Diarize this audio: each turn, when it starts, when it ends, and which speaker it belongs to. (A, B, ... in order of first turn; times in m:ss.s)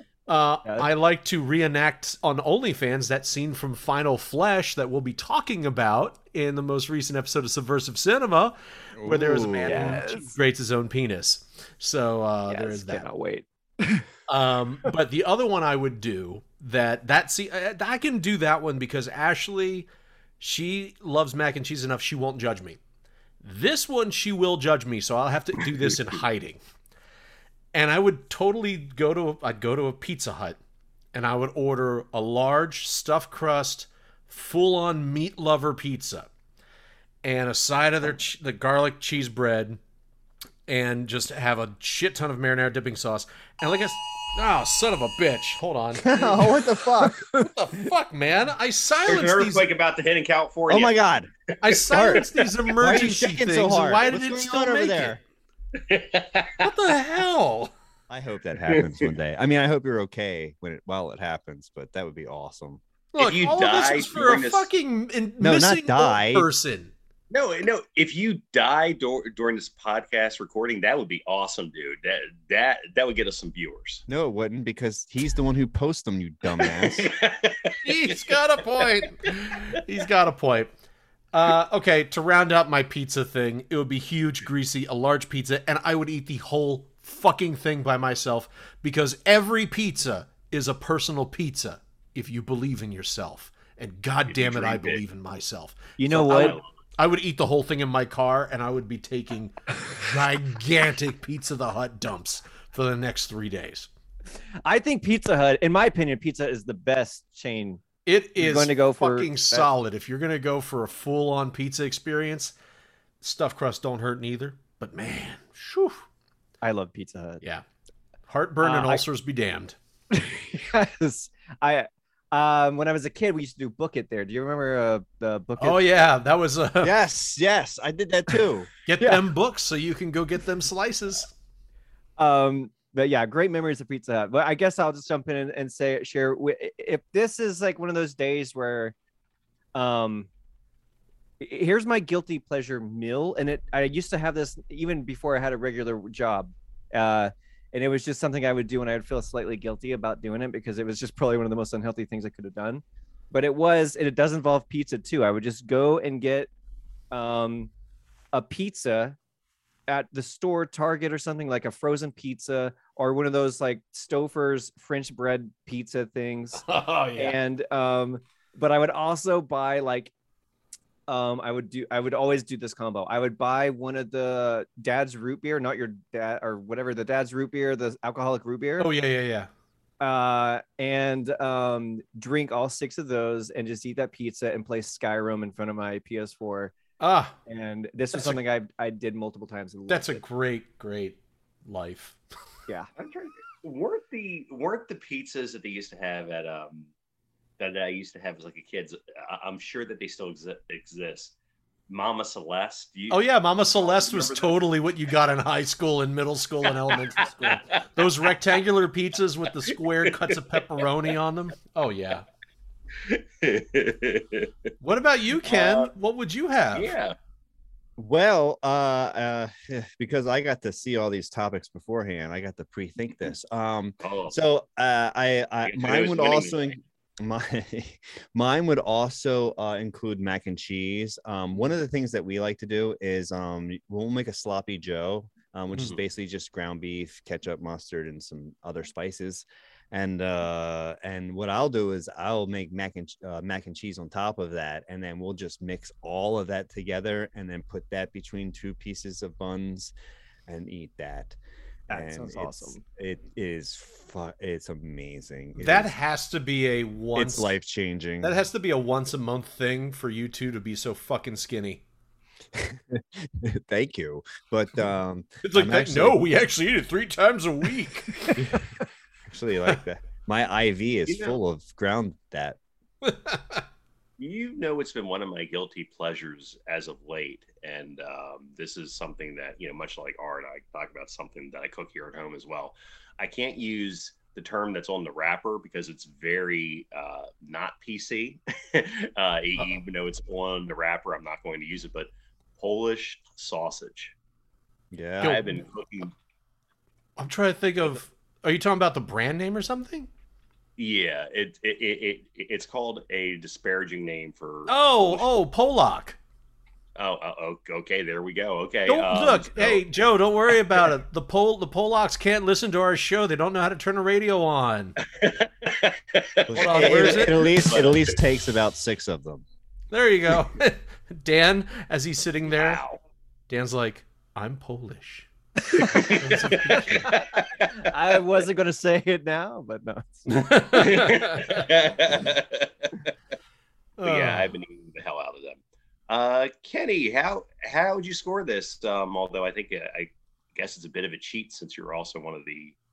0:00.3-0:13.0 A
0:09.0-0:10.0 B
0:09.7-0:10.3 C
0:12.5-0:14.1 C
0:14.3-0:19.9 A
0:20.4-0:22.8 A
0:23.4-0:26.6 A
0:27.7-0:30.6 A
0:31.1-0:36.3 A
0:37.2-0:39.8 A
0:40.7-0:46.5 A
0:46.0-0:47.2 B
0:47.3-0:49.7 A
0:49.0-0:50.9 D
0:50.7-0:51.3 B
0:51.6-0:55.2 A
0:51.7-0:52.2 D
0:51.9-0:52.2 B
0:52.8-0:55.2 B
0:55.8-0:56.6 D
0:56.6-0:57.7 A
0:58.1-1:02.8 B
0:58.7-0:59.1 D
1:03.1-1:06.9 A
1:03.2-1:04.7 D
1:05.4-1:06.5 B
1:07.3-1:14.0 D
1:14.1-1:17.1 B
1:16.6-1:17.7 D
1:17.8-1:20.7 A
1:21.3-1:36.0 A
1:34.3-1:35.0 D
1:36.0-1:36.6 C
1:36.1-1:36.7 D
1:37.0-1:43.9 A
1:44.6-1:47.8 C
1:48.0-1:52.5 A
1:48.4-1:49.7 C
1:53.2-1:56.0 A
1:56.6-1:57.4 C
1:58.3-1:59.8 A
1:58.6-1:59.0 C
2:00.1-2:05.8 C
2:05.6-2:06.9 A
2:06.8-2:08.7 B
2:08.9-2:11.3 A
2:12.2-2:18.9 C
2:19.7-2:20.3 C
2:21.4-2:36.5 C
2:37.1-2:37.7 C
2:38.3-2:39.2 C
2:39.9-2:50.1 C
2:46.6-2:47.4 A
2:51.1-2:58.9 C
2:58.8-2:59.5 A
3:00.0-3:06.8 C
3:07.0-3:07.4 A
3:07.5-3:10.2 C
3:08.1-3:08.4 A
3:09.9-3:12.2 A
3:13.0-3:16.9 D
3:17.6-3:21.3 D
3:21.9-3:23.2 D
3:23.1-3:32.2 A
3:23.8-3:24.6 D
3:33.0-3:34.5 D
3:34.8-3:36.9 A
3:35.4-3:35.9 D
3:36.7-3:37.1 D
3:38.0-4:09.9 B
3:44.0-3:44.4 D
3:45.7-3:46.8 D
4:10.5-4:11.4 B
4:11.9-4:15.9 B
4:11.9-4:12.8 C
4:15.6-4:17.5 A
4:17.1-4:18.4 B
4:18.2-4:21.8 A
4:22.5-4:26.2 B
4:25.4-4:28.3 A
4:28.4-4:28.6 B
4:29.3-4:32.6 B
4:31.1-4:31.4 D
4:33.0-4:33.6 A
4:34.2-4:54.1 D
4:54.9-4:55.4 B
4:55.2-4:56.1 D
4:57.2-5:00.1 A
5:00.8-5:05.3 D
5:04.7-5:06.2 A
5:07.0-5:09.9 D
5:08.9-5:15.0 A
5:15.2-5:18.1 D
5:16.5-5:19.4 B
5:16.5-5:17.5 A
5:19.9-5:22.8 A
5:22.5-5:23.0 D
5:23.5-5:27.2 A
5:25.8-5:27.6 D
5:27.8-5:30.8 C
5:30.3-5:31.7 A
5:30.7-5:32.9 D
5:34.0-5:34.5 A
5:34.0-5:42.8 D